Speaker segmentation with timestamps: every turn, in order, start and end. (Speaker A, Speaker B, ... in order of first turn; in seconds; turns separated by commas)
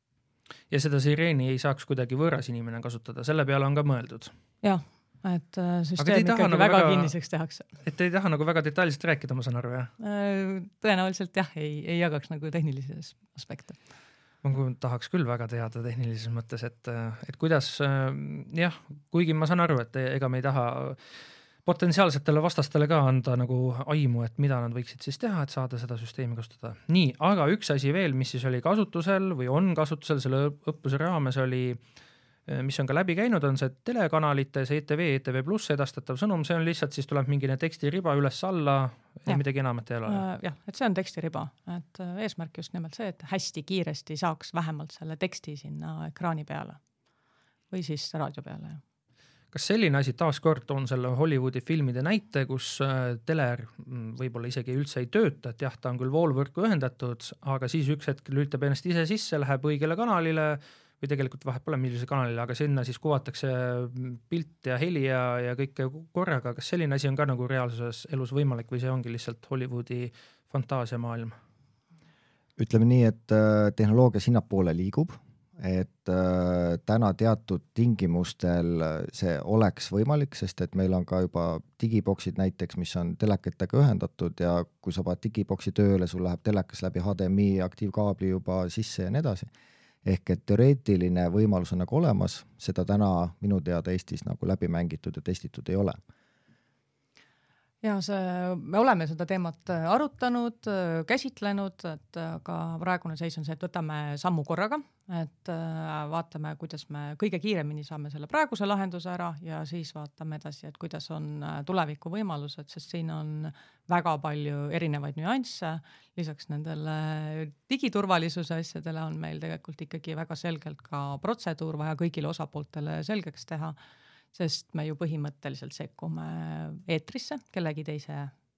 Speaker A: 0.7-4.3, Speaker B: 4.6-7.7, Speaker A: 6.0-7.1, Speaker A: 7.8-9.9, Speaker B: 10.0-13.8, Speaker A: 14.4-21.0, Speaker A: 21.6-31.8, Speaker A: 32.5-40.2, Speaker B: 40.1-46.8, Speaker B: 47.7-48.8, Speaker A: 49.5-71.3, Speaker C: 72.6-89.5, Speaker C: 90.0-96.0, Speaker B: 97.8-123.7, Speaker B: 124.3-128.3